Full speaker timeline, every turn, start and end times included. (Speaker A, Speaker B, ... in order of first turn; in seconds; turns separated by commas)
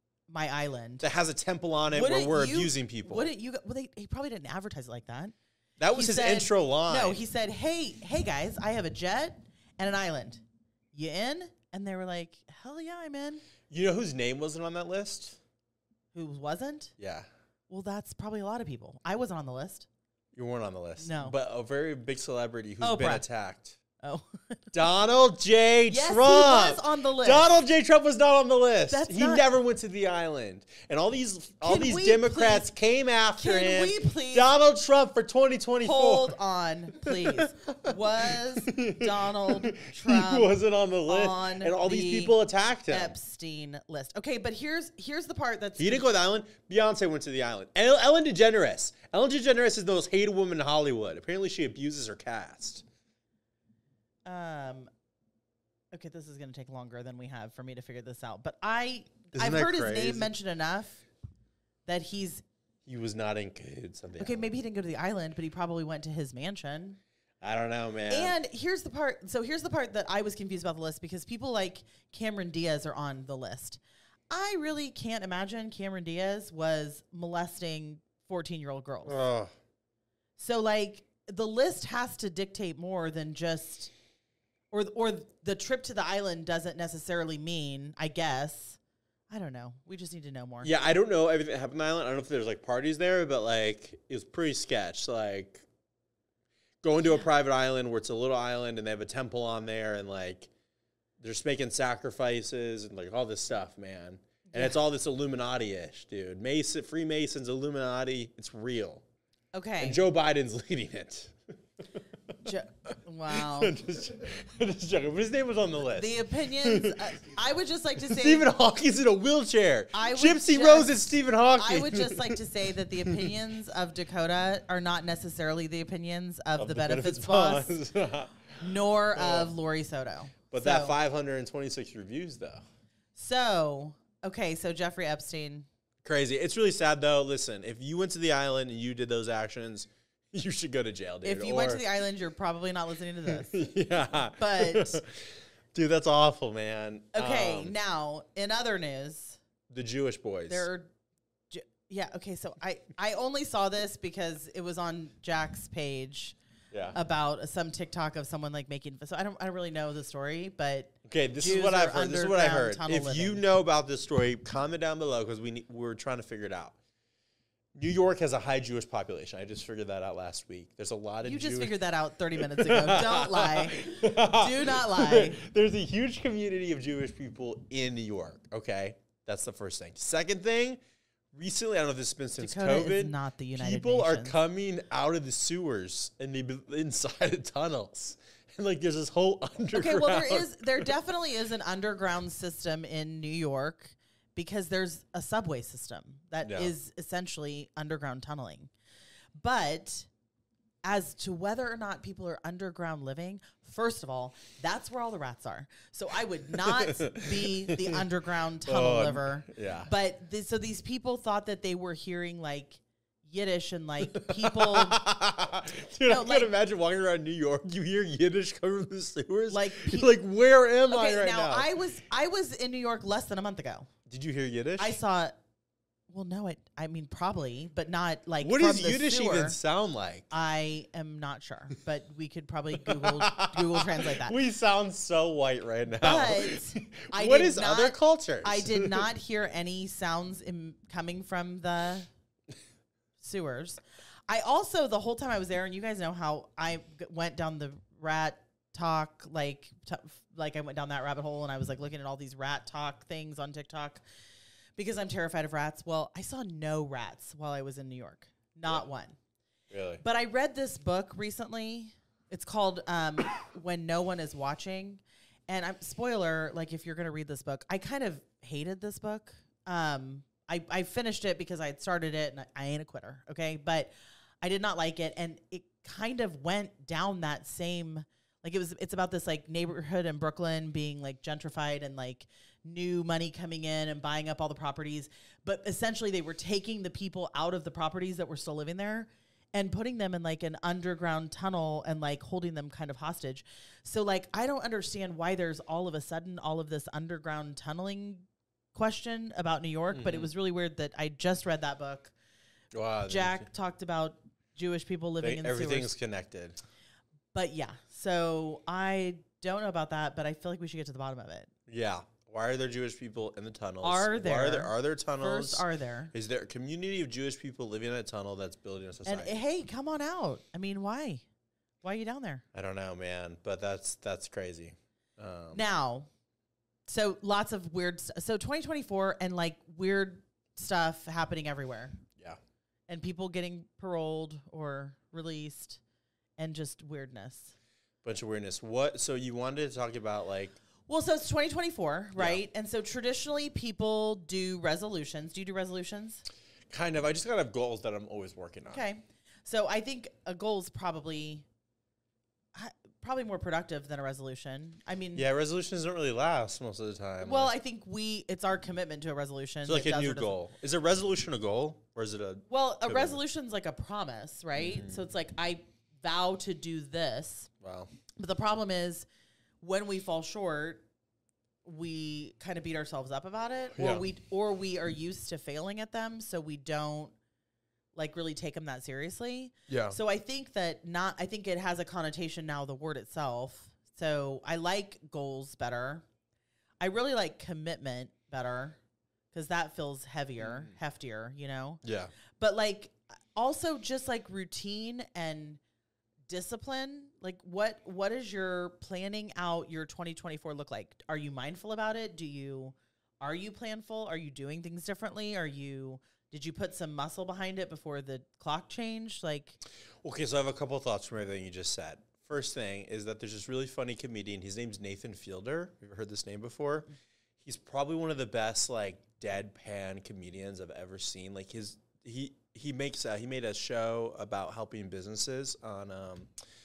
Speaker A: 0.3-1.0, Speaker B: 1.0-3.3, Speaker A: 1.9-5.3, Speaker B: 5.8-7.2, Speaker A: 5.9-13.4, Speaker B: 13.7-15.4, Speaker A: 16.1-16.9, Speaker B: 17.0-17.3, Speaker A: 17.7-19.9, Speaker B: 20.3-23.8, Speaker A: 21.0-21.4, Speaker A: 22.8-23.2, Speaker A: 24.0-24.7, Speaker B: 24.7-36.4, Speaker A: 25.9-27.6, Speaker A: 28.9-29.4, Speaker A: 31.6-32.7, Speaker A: 33.4-34.5, Speaker A: 35.8-42.3, Speaker B: 36.9-43.1, Speaker A: 42.9-46.1, Speaker B: 45.8-52.8, Speaker A: 54.2-54.9, Speaker A: 55.9-61.0, Speaker B: 59.3-60.3, Speaker A: 61.9-62.4, Speaker B: 62.8-64.5, Speaker A: 64.2-67.0, Speaker B: 67.4-68.3, Speaker A: 68.1-79.2, Speaker B: 79.0-79.5, Speaker A: 80.4-83.9, Speaker A: 84.7-88.8, Speaker A: 89.3-90.7, Speaker B: 90.6-95.6, Speaker B: 96.8-100.5, Speaker B: 101.2-109.0, Speaker A: 104.5-104.8, Speaker A: 109.5-110.0, Speaker B: 109.8-111.4, Speaker A: 112.4-113.8, Speaker B: 113.3-117.1, Speaker A: 115.9-118.5, Speaker B: 118.0-123.4, Speaker A: 119.9-121.0, Speaker A: 121.5-127.8, Speaker B: 126.6-128.6, Speaker A: 128.6-130.9, Speaker B: 129.1-129.5, Speaker B: 130.5-132.6, Speaker A: 133.1-135.7, Speaker B: 136.0-141.8, Speaker A: 141.2-143.7, Speaker B: 143.3-147.7, Speaker A: 144.4-145.0, Speaker A: 147.1-149.4, Speaker B: 149.7-150.7, Speaker A: 150.5-150.9, Speaker A: 151.5-156.3, Speaker B: 156.7-157.0, Speaker A: 156.9-163.4, Speaker B: 161.1-166.8, Speaker B: 167.7-171.8, Speaker A: 171.2-175.4, Speaker B: 172.4-180.8, Speaker B: 181.3-190.9, Speaker A: 182.4-184.4, Speaker A: 189.7-198.7, Speaker B: 196.4-196.7, Speaker A: 199.3-200.1, Speaker A: 200.8-215.0, Speaker B: 206.6-208.0, Speaker B: 208.6-209.9, Speaker B: 214.1-221.7, Speaker A: 216.0-216.5, Speaker A: 219.5-220.1, Speaker A: 220.9-223.9, Speaker B: 224.1-225.0, Speaker A: 224.8-225.3, Speaker A: 226.1-229.6, Speaker B: 228.4-230.2, Speaker A: 230.3-234.3, Speaker B: 232.8-239.1, Speaker A: 235.9-242.1, Speaker A: 243.2-254.0, Speaker A: 254.8-259.2, Speaker B: 259.7-260.0, Speaker A: 260.0-302.1, Speaker B: 299.9-300.3, Speaker B: 302.7-303.4, Speaker A: 303.1-305.9, Speaker B: 305.2-306.6, Speaker A: 307.3-311.5, Speaker B: 311.7-319.4, Speaker A: 313.8-316.1, Speaker A: 319.0-321.2, Speaker A: 321.8-322.4, Speaker B: 322.5-325.6, Speaker A: 325.5-326.1, Speaker A: 326.9-332.0, Speaker A: 332.9-335.8, Speaker A: 336.4-337.6, Speaker B: 338.0-340.6, Speaker A: 340.9-346.2, Speaker B: 346.7-348.8, Speaker A: 348.7-351.4, Speaker A: 352.5-355.2, Speaker B: 355.1-357.5, Speaker A: 357.2-360.3, Speaker B: 359.6-363.2, Speaker A: 362.5-367.5, Speaker B: 364.6-365.0, Speaker B: 367.6-367.9, Speaker A: 368.2-369.1, Speaker A: 369.6-370.8, Speaker A: 371.6-377.1, Speaker B: 373.8-374.0, Speaker A: 377.9-386.0, Speaker B: 379.7-380.0, Speaker A: 386.8-388.8, Speaker A: 389.3-391.8, Speaker B: 390.4-390.7, Speaker B: 391.8-392.1, Speaker A: 392.4-395.6, Speaker A: 396.3-409.6, Speaker B: 410.0-416.9, Speaker B: 417.4-426.3